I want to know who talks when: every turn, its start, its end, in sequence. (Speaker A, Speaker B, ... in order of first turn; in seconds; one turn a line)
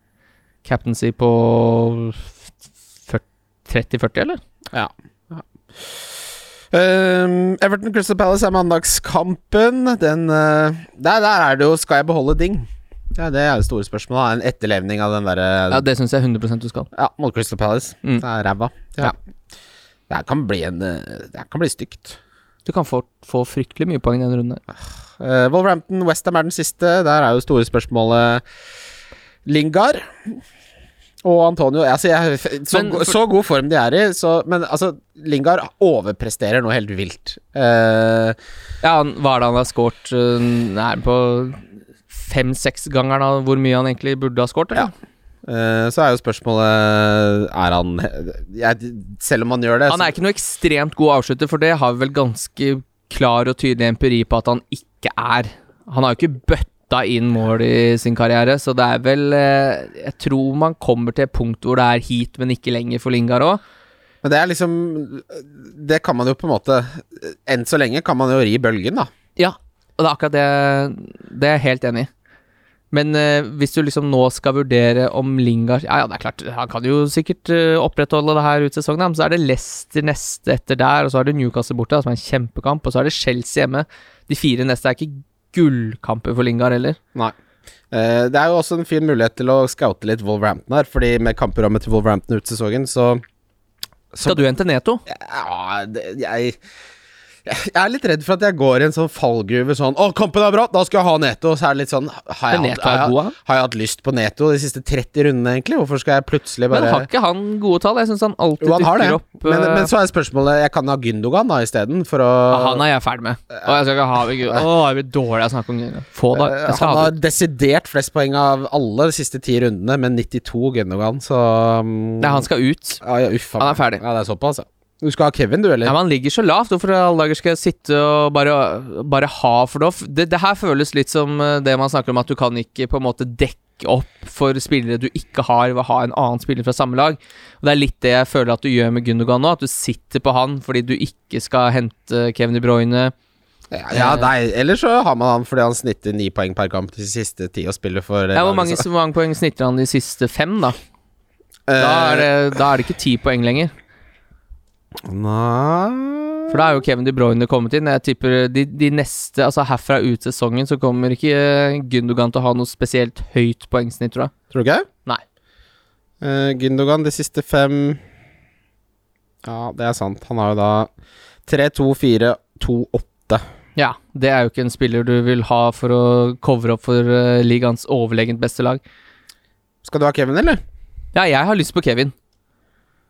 Speaker A: 0.6-2.3
Speaker A: 3.1-4.4
Speaker B: 4.7-5.9
Speaker B: 6.7-15.8
Speaker A: 15.7-16.9
Speaker B: 16.9-19.1
Speaker B: 20.1-22.2
Speaker A: 22.6-24.6
Speaker B: 25.2-28.4
Speaker B: 29.4-30.3
Speaker B: 31.2-38.4
Speaker A: 32.7-33.1
Speaker A: 38.8-44.9
Speaker B: 45.5-50.1
Speaker A: 49.9-63.6
Speaker B: 64.2-69.1
Speaker A: 69.4-72.1
Speaker A: 72.9-87.0
Speaker B: 87.9-93.2
Speaker B: 94.1-94.4
Speaker A: 94.2-95.0
Speaker B: 95.1-96.6
Speaker B: 97.5-107.1
Speaker A: 102.5-103.3
Speaker A: 106.7-109.9
Speaker B: 108.6-112.8
Speaker A: 112.5-117.1
Speaker B: 116.3-122.4
Speaker A: 122.2-123.0
Speaker B: 123.0-125.9
Speaker A: 123.6-124.0
Speaker A: 125.8-143.1
Speaker B: 143.7-148.8
Speaker A: 143.9-144.3
Speaker A: 148.3-150.7
Speaker B: 151.7-152.3
Speaker A: 151.8-153.7
Speaker B: 155.1-156.6
Speaker A: 156.5-164.3
Speaker B: 164.5-164.8
Speaker B: 166.2-168.0
Speaker B: 169.4-170.9
Speaker B: 171.5-173.4
Speaker A: 173.8-178.8
Speaker B: 179.8-180.6
Speaker A: 181.1-182.1